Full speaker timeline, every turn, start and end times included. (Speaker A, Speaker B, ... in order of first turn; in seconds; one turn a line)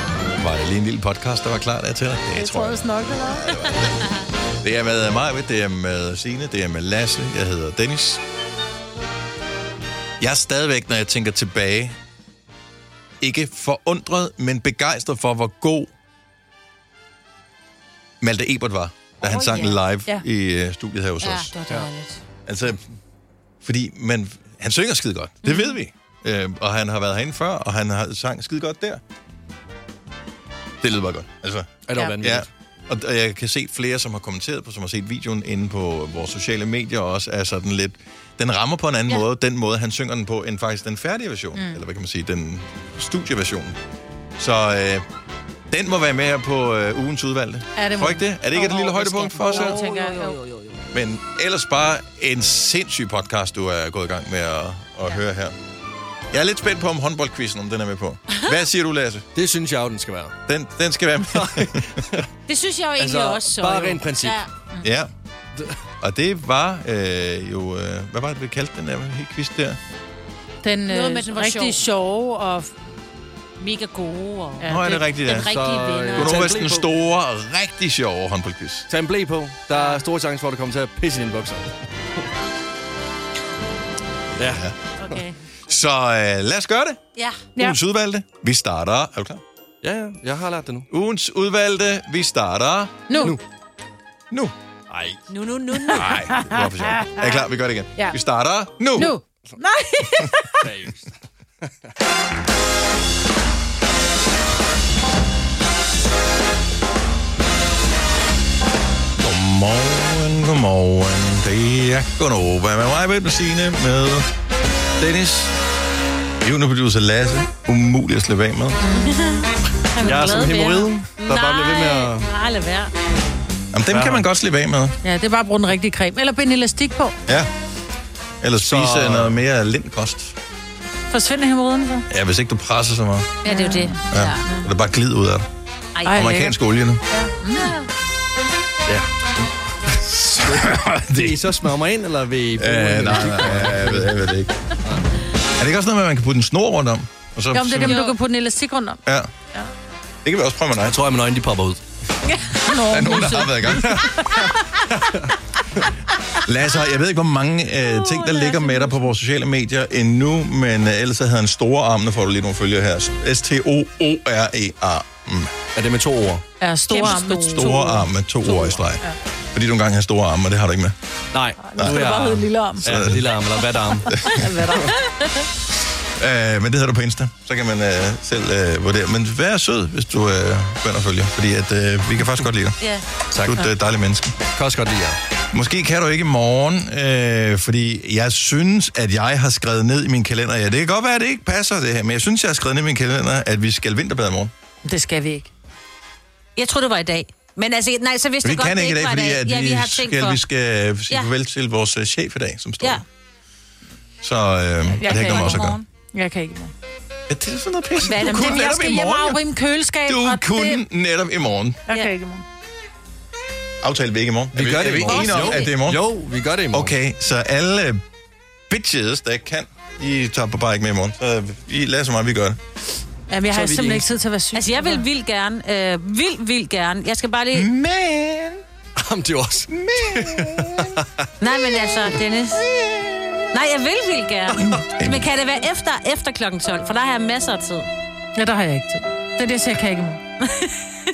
Speaker A: 0.4-4.0
Speaker B: 2.4-3.5
Speaker A: 4.6-8.2
Speaker A: 10.2-12.0
Speaker A: 13.2-15.9
Speaker A: 18.2-21.5
Speaker C: 19.2-20.2
Speaker C: 21.2-22.2
Speaker A: 22.5-22.9
Speaker A: 23.6-29.0
Speaker C: 25.5-25.7
Speaker A: 30.8-43.8
Speaker D: 31.9-32.5
Speaker A: 44.4-45.0
Speaker A: 45.7-49.8
Speaker B: 47.8-50.4
Speaker C: 49.4-50.6
Speaker A: 50.9-55.5
Speaker A: 56.3-59.3
Speaker D: 59.4-60.4
Speaker A: 60.5-61.9
Speaker D: 61.3-62.3
Speaker C: 62.5-64.5
Speaker D: 63.0-64.4
Speaker A: 64.8-65.1
Speaker A: 66.0-69.8
Speaker B: 70.6-72.7
Speaker C: 70.9-71.8
Speaker C: 73.6-76.6
Speaker B: 74.6-75.0
Speaker A: 74.7-75.5
Speaker D: 75.5-76.9
Speaker A: 76.1-78.9
Speaker D: 78.9-81.7
Speaker C: 79.7-80.0
Speaker A: 84.4-84.8
Speaker D: 84.4-84.6
Speaker C: 85.0-85.3
Speaker A: 85.7-87.0
Speaker C: 87.2-87.5
Speaker A: 87.6-89.4
Speaker D: 89.8-90.9
Speaker A: 90.9-93.1
Speaker B: 93.1-93.3
Speaker D: 94.9-95.2
Speaker C: 95.3-96.2
Speaker B: 95.8-97.3
Speaker A: 96.0-99.2
Speaker B: 99.0-100.6
Speaker D: 100.6-101.7
Speaker A: 109.2-114.3
Speaker A: 115.0-115.5
Speaker A: 116.4-118.8
Speaker C: 118.9-122.9
Speaker D: 120.0-122.3
Speaker A: 123.7-125.0
Speaker D: 123.9-124.2
Speaker B: 125.0-127.2
Speaker A: 128.4-130.3
Speaker D: 128.6-129.4
Speaker B: 131.1-132.1
Speaker A: 132.1-133.4
Speaker C: 133.4-134.5
Speaker B: 133.5-134.6
Speaker A: 134.1-135.5
Speaker C: 136.0-136.5
Speaker B: 136.1-136.5
Speaker A: 136.1-137.0
Speaker B: 137.1-137.7
Speaker C: 137.4-137.9
Speaker A: 140.1-141.5
Speaker D: 140.4-144.2
Speaker A: 142.6-144.5
Speaker A: 145.6-148.0
Speaker B: 147.5-149.0
Speaker C: 147.8-148.2
Speaker A: 149.1-149.3
Speaker A: 150.2-151.0
Speaker D: 150.8-151.8
Speaker B: 152.5-154.5
Speaker A: 152.8-154.0
Speaker D: 155.1-155.3
Speaker A: 156.4-165.6
Speaker C: 157.8-159.1
Speaker D: 165.8-166.4
Speaker B: 166.6-168.5
Speaker C: 166.9-167.8
Speaker A: 167.4-169.0
Speaker A: 169.5-171.0
Speaker D: 171.3-174.8
Speaker B: 171.6-172.9
Speaker A: 172.8-173.3
Speaker A: 174.1-174.4
Speaker B: 174.2-174.9
Speaker A: 176.2-182.8
Speaker A: 183.3-184.4
Speaker D: 184.6-185.2
Speaker A: 185.5-194.5
Speaker B: 194.8-195.5
Speaker C: 196.6-200.4
Speaker A: 198.4-203.0
Speaker A: 204.2-205.8
Speaker B: 204.9-206.7
Speaker C: 205.1-205.8
Speaker A: 207.3-209.4
Speaker B: 208.0-210.8
Speaker C: 208.1-208.8
Speaker A: 210.1-211.8
Speaker B: 211.9-212.4
Speaker A: 213.8-216.0
Speaker D: 214.5-216.9
Speaker B: 215.1-215.6
Speaker C: 215.3-215.7
Speaker A: 216.7-218.0
Speaker A: 218.7-222.6
Speaker B: 223.3-225.1
Speaker D: 223.5-224.1
Speaker C: 224.5-227.7
Speaker A: 227.5-228.6
Speaker D: 229.0-231.3
Speaker A: 229.7-230.9
Speaker C: 231.4-232.6
Speaker C: 233.5-237.9
Speaker A: 234.7-235.3
Speaker B: 238.4-240.2